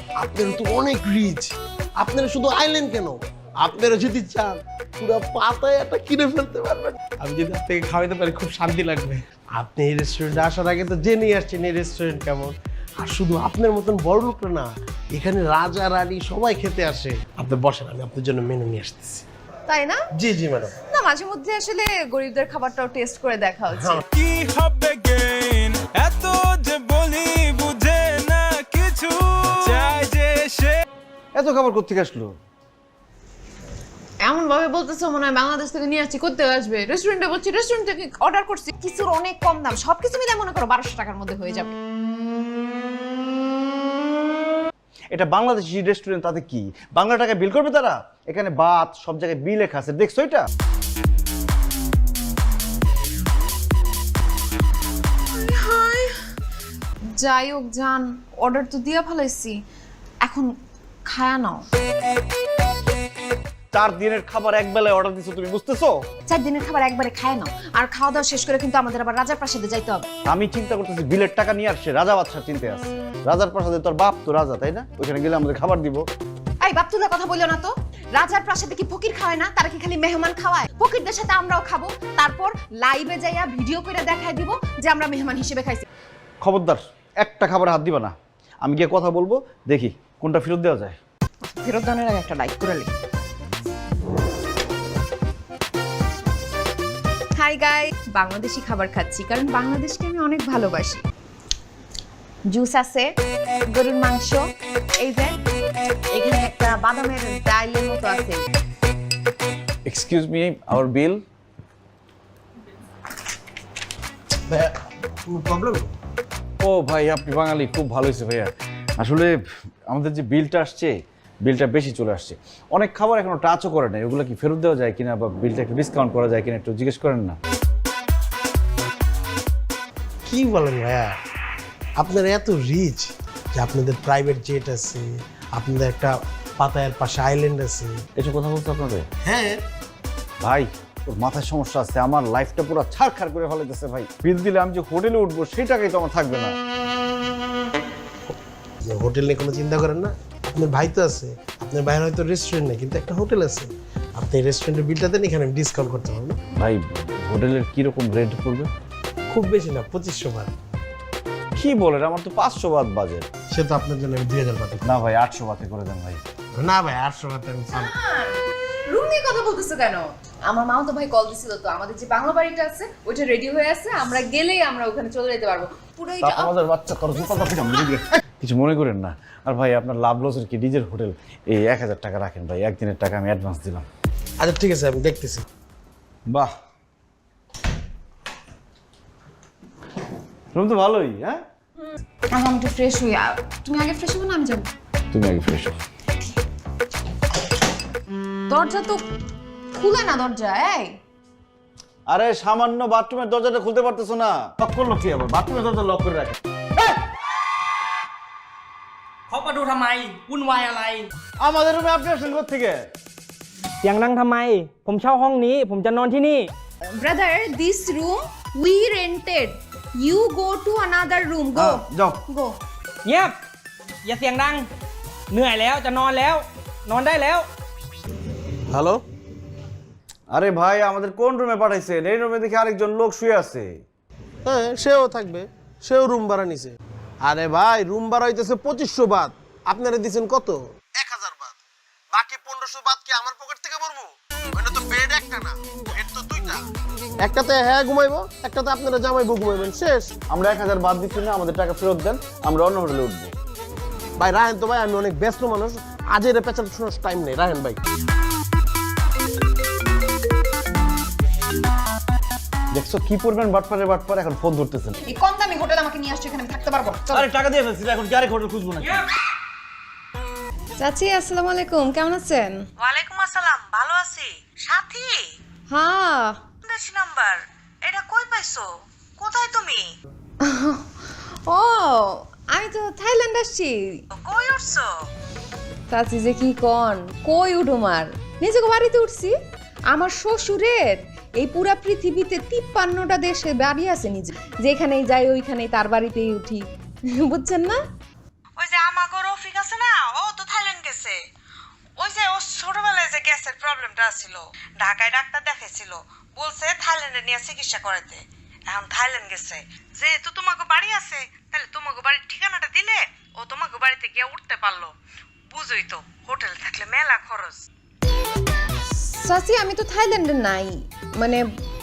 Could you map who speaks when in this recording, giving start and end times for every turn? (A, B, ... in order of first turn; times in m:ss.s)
0:00.2-0:19.2 A
0:19.7-0:20.0 B
0:20.1-0:20.8 A
0:20.9-0:24.0 B
0:24.1-0:30.8 C
0:31.4-0:32.3 D
0:34.2-0:41.8 B
0:45.1-0:50.5 D
0:55.3-0:56.2 B
0:57.1-0:59.6 B
1:00.2-1:00.5 B
1:01.1-1:01.7 B
1:03.7-1:06.0 D
1:06.3-1:10.0 B
1:10.3-1:16.0 D
1:16.6-1:25.9 B
1:26.4-1:31.0 D
1:31.4-1:32.9 B
1:37.4-1:41.0 B
1:42.5-1:43.1 B
1:43.7-1:44.5 B
1:45.0-1:45.3 B
1:46.1-1:48.4 B
1:49.9-1:51.2 D
1:54.5-1:54.8 A
1:55.3-1:55.9 A
1:56.6-1:59.3 D
1:59.9-2:07.4 D
2:10.3-2:11.2 A
2:12.0-2:18.0 A
2:18.2-2:19.1 D
2:19.2-2:19.6 A
2:20.4-2:26.5 D
2:28.3-2:36.4 A
2:36.6-2:38.7 D
2:39.3-2:40.5 A
2:41.6-2:43.3 D
2:43.5-2:44.9 A
2:44.8-2:46.2 D
2:46.6-2:47.9 A
2:47.7-2:56.5 B
2:56.2-3:03.9 D
3:04.4-3:05.4 A
3:10.5-3:11.4 D
3:12.3-3:14.7 B
3:15.1-3:15.8 D
3:18.5-3:19.0 B
3:19.7-3:21.0 B
3:22.1-3:26.4 D
3:29.3-3:31.1 E
3:31.4-3:32.8 D
3:33.8-3:36.5 E
3:36.9-3:42.6 B
3:41.6-3:42.2 D
3:43.0-3:43.4 E
3:44.0-3:44.7 E
3:45.3-3:47.5 E
3:48.7-3:49.0 A
3:50.3-3:53.7 D
3:54.4-4:01.6 A
4:02.1-4:06.6 A
4:07.2-4:10.1 A
4:10.3-4:13.3 D
4:14.2-4:17.8 A
4:22.7-4:25.0 D
4:25.1-4:27.3 B
4:27.1-4:29.1 D
4:30.8-4:32.6 B
4:32.8-4:35.3 F
4:35.7-4:36.4 B
4:36.6-4:39.9 F
4:40.4-4:44.0 B
4:44.2-4:44.9 F
4:45.9-4:49.4 B
4:49.9-4:57.8 B
4:58.6-5:01.2 F
5:02.0-5:14.9 F
5:15.5-5:17.6 F
5:18.9-5:21.4 B